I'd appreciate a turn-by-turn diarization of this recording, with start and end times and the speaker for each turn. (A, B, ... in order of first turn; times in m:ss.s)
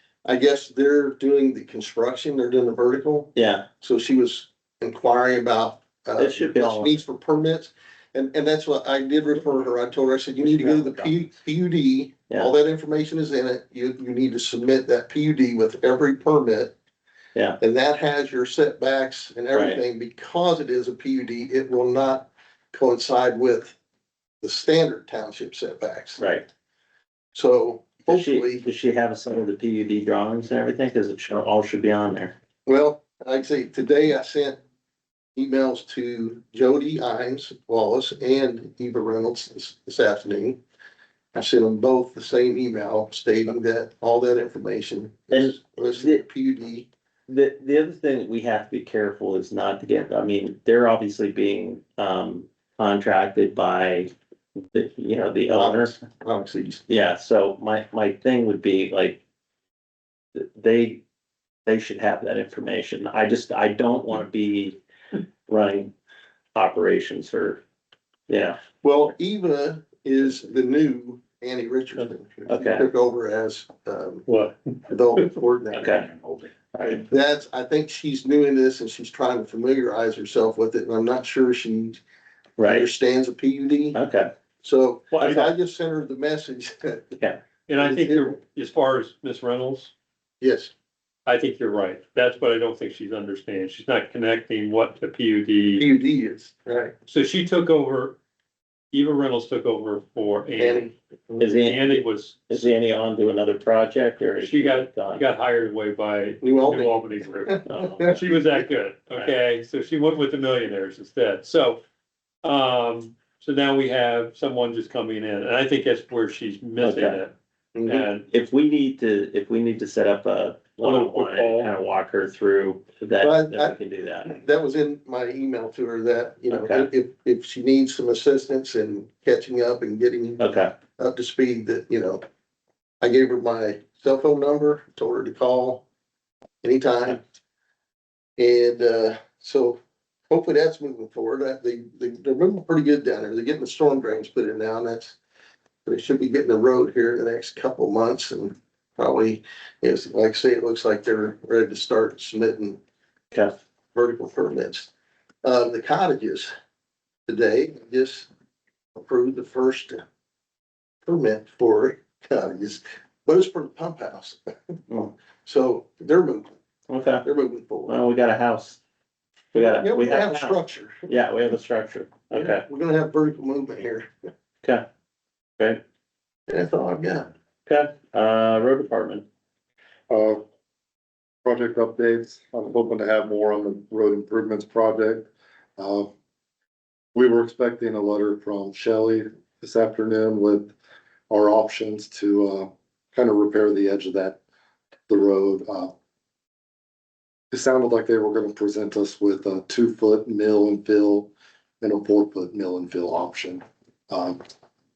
0:00.2-0:16.7 A
0:03.3-0:03.7 B
0:06.2-0:07.0 B
0:10.4-0:11.1 B
0:17.6-0:23.8 A
0:19.5-0:19.8 B
0:24.4-0:26.2 A
0:26.2-0:26.4 B
0:27.3-0:28.6 A
0:28.1-0:32.3 B
0:32.6-0:34.6 A
0:35.4-0:40.6 A
0:41.3-0:46.9 A
0:45.3-0:46.2 B
0:47.3-0:54.1 B
0:54.7-0:56.0 B
0:55.5-0:56.8 A
0:56.9-0:59.2 B
1:00.3-1:01.0 B
1:01.6-1:04.8 B
1:05.5-1:05.9 B
1:06.5-1:07.6 B
1:08.3-1:08.6 B
1:08.8-1:14.2 A
1:12.5-1:12.9 B
1:14.2-1:15.2 C
1:14.9-1:16.0 A
1:15.7-1:16.2 B
1:16.7-1:17.0 B
1:16.8-1:22.0 A
1:22.6-1:22.9 B
1:22.7-1:24.0 A
1:23.9-1:24.3 B
1:24.6-1:27.2 A
1:25.1-1:25.4 B
1:25.2-1:25.5 C
1:27.7-1:29.9 C
1:27.8-1:28.4 A
1:30.4-1:30.7 A
1:31.2-1:35.9 C
1:35.8-1:36.9 A
1:37.0-1:38.2 C
1:38.9-1:42.7 C
1:40.6-1:40.9 A
1:41.4-1:45.2 B
1:44.4-1:51.8 C
1:46.4-1:48.6 A
1:47.6-1:48.2 B
1:52.4-1:57.3 C
1:56.8-1:57.2 B
1:57.7-1:58.1 A
1:57.8-1:58.3 C
1:58.3-2:04.4 B
2:00.8-2:01.7 C
2:03.2-2:10.4 A
2:06.5-2:06.9 B
2:10.4-2:10.7 B
2:11.0-2:12.2 A
2:13.0-2:15.8 A
2:16.6-2:17.2 A
2:18.4-2:19.8 A
2:20.3-2:25.2 A
2:25.8-2:32.8 A
2:33.9-2:34.9 A
2:35.4-2:36.5 A
2:37.3-2:38.3 A
2:39.0-2:40.0 A
2:41.0-2:44.7 A
2:45.4-2:46.5 A
2:46.9-2:47.2 B
2:47.2-2:48.0 A
2:47.8-2:48.8 B
2:49.5-2:51.0 A
2:49.5-2:52.6 B
2:52.3-2:54.1 A
2:56.5-2:57.3 A
2:57.7-2:59.2 B
3:00.1-3:00.4 D
3:01.4-3:06.1 D
3:07.1-3:10.7 D
3:11.3-3:14.4 D
3:15.1-3:15.9 D
3:17.5-3:24.4 D